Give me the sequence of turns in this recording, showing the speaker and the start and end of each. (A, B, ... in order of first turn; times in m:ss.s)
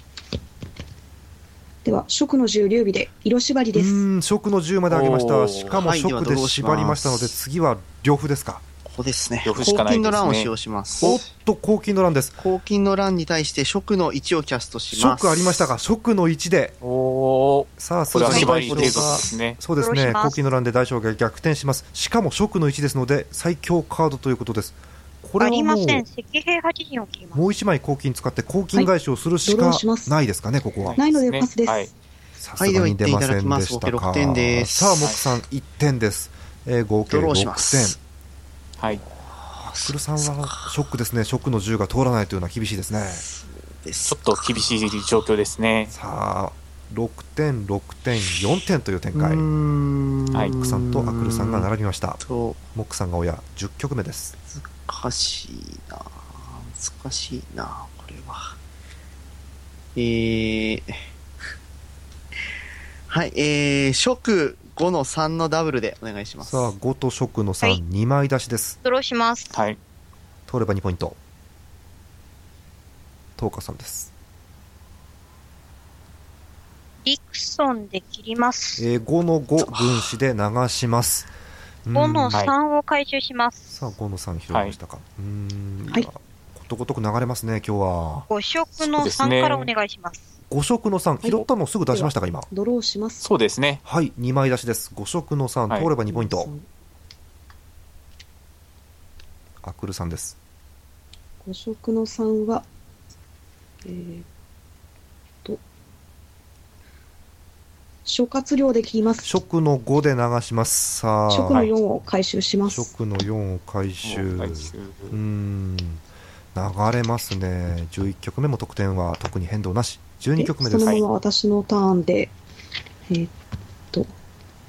0:01.8-0:04.0 A
0:03.7-0:08.6 B
0:04.9-0:05.8 C
0:05.8-0:07.3 D
0:08.8-0:11.3 D
0:09.4-0:10.5 C
0:11.0-0:12.4 B
0:12.4-0:15.6 D
0:14.9-0:16.8 B
0:16.8-0:19.6 C
0:17.8-0:26.0 B
0:18.3-0:18.6 E
0:18.4-0:19.3 D
0:19.8-0:20.4 E
0:25.4-0:27.4 E
0:27.3-0:31.0 B
0:29.4-0:30.2 A
0:30.8-0:31.9 C
0:31.0-0:31.9 A
0:32.4-0:38.0 B
0:32.6-0:35.1 D
0:37.1-0:38.0 D
0:39.0-0:40.7 D
0:39.6-0:43.2 B
0:43.0-0:44.9 D
0:44.1-0:45.9 C
0:45.9-0:49.4 B
0:49.2-0:51.7 D
0:50.6-0:52.2 B
0:52.2-0:52.6 D
0:52.7-0:54.4 B
0:54.5-0:58.6 D
1:00.0-1:01.0 D
1:03.1-1:06.7 D
1:06.4-1:08.8 B
1:08.8-1:09.6 E
1:09.5-1:09.8 C
1:10.5-1:11.2 B
1:13.4-1:14.1 B
1:17.0-1:18.9 E
1:18.8-1:21.3 B
1:19.7-1:20.0 D
1:21.8-1:22.4 B
1:21.9-1:23.8 E
1:23.7-1:28.3 B
1:28.3-1:30.3 E
1:28.8-1:29.7 C
1:30.5-1:32.5 B
1:31.2-1:33.2 A
1:33.2-1:33.8 C
1:33.8-1:36.5 B
1:36.1-1:36.6 A
1:39.6-1:40.4 B
1:41.4-1:42.7 A
1:43.8-1:44.2 A
1:48.1-1:49.3 A
1:49.2-1:51.7 B
1:51.3-1:52.9 A
1:52.7-1:56.0 B
1:54.0-1:55.2 C
1:56.6-2:01.0 B
2:00.4-2:02.3 A